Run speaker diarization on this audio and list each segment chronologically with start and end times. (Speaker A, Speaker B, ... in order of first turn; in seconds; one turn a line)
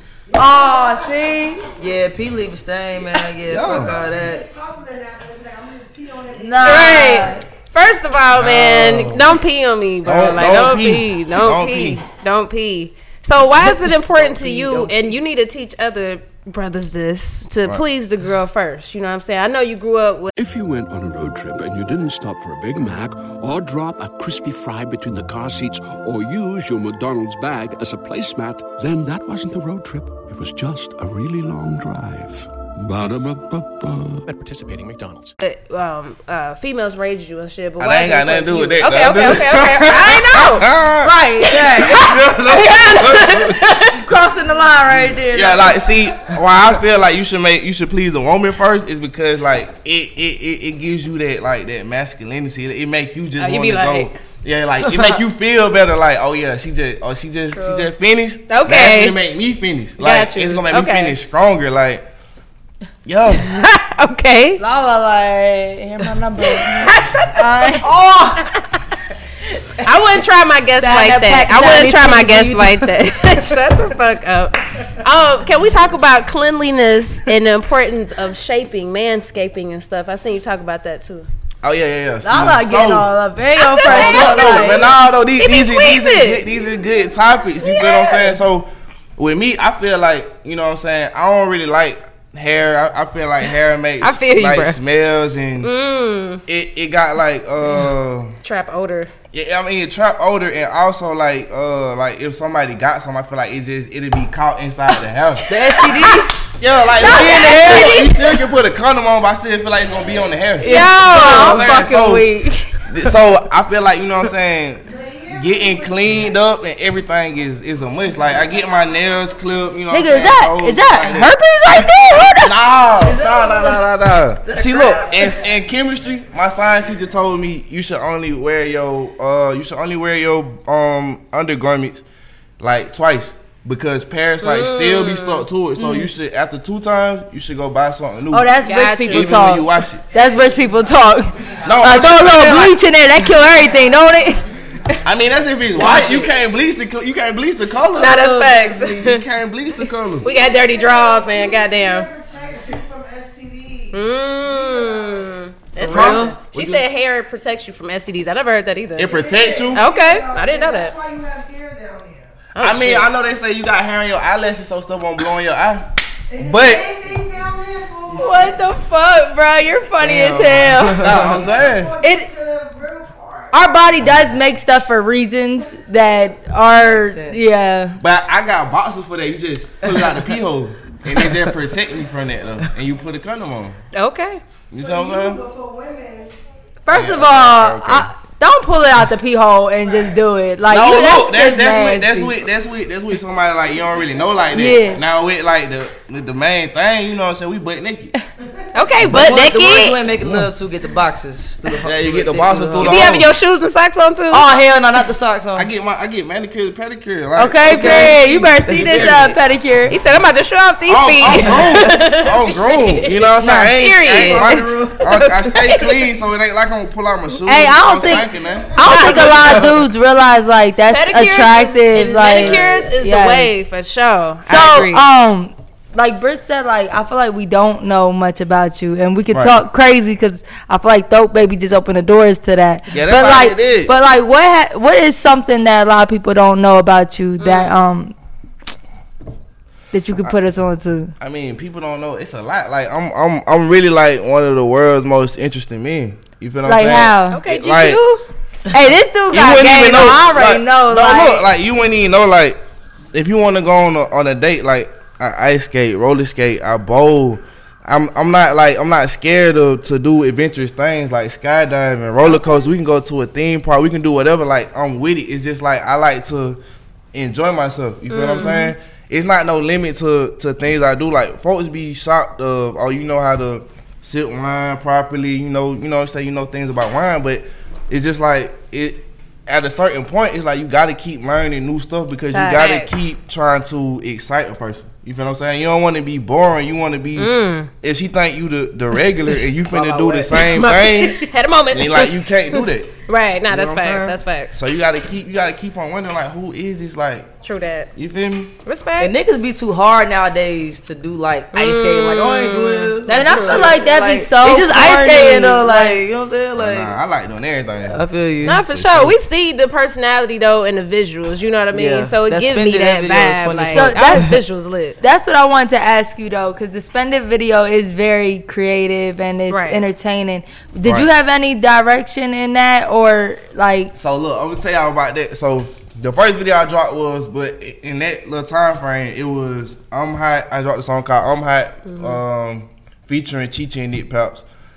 Speaker A: 0.3-1.7
Speaker B: 1.8-4.5
Speaker C: 3.5-4.1
Speaker D: 4.9-6.1
Speaker A: 6.3-7.4
Speaker E: 6.6-20.3
Speaker C: 8.3-9.4
Speaker C: 10.0-12.0
Speaker B: 14.1-15.1
Speaker F: 20.4-34.3
Speaker E: 35.4-40.7
Speaker C: 37.8-43.6
Speaker A: 41.0-42.1
Speaker E: 41.5-44.0
Speaker A: 44.0-45.8
Speaker C: 45.3-62.0
Speaker E: 53.4-54.2
Speaker A: 57.5-57.8
Speaker E: 58.5-59.2
Speaker E: 60.0-61.1
Speaker C: 63.0-63.5
Speaker E: 63.3-64.6
Speaker A: 64.6-67.8
Speaker E: 66.4-67.8
Speaker B: 67.8-68.5
Speaker E: 68.4-68.8
Speaker E: 69.8-81.3
Speaker B: 70.8-72.9
Speaker C: 81.6-83.1
Speaker A: 82.2-84.9
Speaker E: 83.6-86.7
Speaker C: 83.8-95.7
Speaker E: 87.6-88.3
Speaker E: 94.0-94.8
Speaker E: 95.6-96.4
Speaker C: 96.5-98.3
Speaker E: 98.4-99.1
Speaker C: 99.3-105.5
Speaker B: 105.5-106.3
Speaker C: 106.5-112.3
Speaker A: 107.0-108.1
Speaker B: 107.0-108.2
Speaker A: 110.6-112.8
Speaker E: 110.6-111.7
Speaker C: 112.9-121.3
Speaker A: 119.9-122.5
Speaker C: 122.4-132.0
Speaker B: 123.0-123.9
Speaker B: 124.4-125.4
Speaker C: 132.6-140.0
Speaker E: 134.4-135.5
Speaker A: 138.3-144.4
Speaker E: 138.7-139.3
Speaker C: 141.6-142.7
Speaker C: 145.0-150.3
Speaker E: 147.9-149.2
Speaker A: 148.5-148.8
Speaker E: 150.2-152.1
Speaker D: 152.1-153.8
Speaker E: 153.9-161.0
Speaker C: 155.8-156.8
Speaker B: 155.8-156.3
Speaker C: 159.0-159.8
Speaker D: 161.0-162.1
Speaker E: 162.6-163.1
Speaker C: 162.6-167.0
Speaker A: 168.1-171.1
Speaker B: 170.0-171.3
Speaker C: 170.1-172.0
Speaker A: 172.0-172.3
Speaker D: 172.6-173.1
Speaker A: 173.5-178.0
Speaker B: 176.7-177.6
Speaker C: 178.0-183.8
Speaker E: 183.9-184.4
Speaker C: 184.7-185.5
Speaker D: 185.5-186.3
Speaker A: 186.8-192.4
Speaker C: 186.9-188.1
Speaker C: 190.7-198.1
Speaker A: 194.5-195.0
Speaker E: 198.7-200.0
Speaker C: 199.0-199.3
Speaker B: 199.1-203.1
Speaker C: 200.2-200.5
Speaker C: 201.7-203.3
Speaker E: 202.8-204.5
Speaker B: 204.3-205.7
Speaker C: 205.6-209.3
Speaker A: 207.4-209.9
Speaker B: 207.6-209.2
Speaker E: 209.9-216.1
Speaker C: 210.9-219.7
Speaker B: 214.2-215.0
Speaker A: 217.4-223.5
Speaker E: 218.8-219.7
Speaker E: 220.9-225.0
Speaker C: 222.3-222.7
Speaker A: 224.4-238.1
Speaker C: 229.3-229.6
Speaker C: 232.9-233.9
Speaker E: 237.4-237.7
Speaker A: 239.9-241.1
Speaker C: 241.2-248.0
Speaker A: 246.6-247.4
Speaker E: 247.3-248.2
Speaker A: 248.7-251.4
Speaker C: 249.3-252.6
Speaker C: 253.1-266.6
Speaker C: 267.1-292.9
Speaker E: 268.1-268.7
Speaker A: 282.3-282.8
Speaker E: 287.2-287.7
Speaker B: 289.7-290.5
Speaker E: 290.5-294.5
Speaker C: 293.5-297.3
Speaker E: 297.4-297.9
Speaker C: 297.9-298.5
Speaker E: 298.6-299.1
Speaker B: 299.0-306.9
Speaker E: 301.5-303.8
Speaker A: 303.1-306.0
Speaker C: 306.6-309.1
Speaker B: 307.8-308.6
Speaker E: 308.4-315.0
Speaker B: 311.7-314.3
Speaker A: 313.7-314.3
Speaker A: 315.0-323.9
Speaker E: 319.5-319.8
Speaker C: 323.9-334.4
Speaker E: 331.9-332.2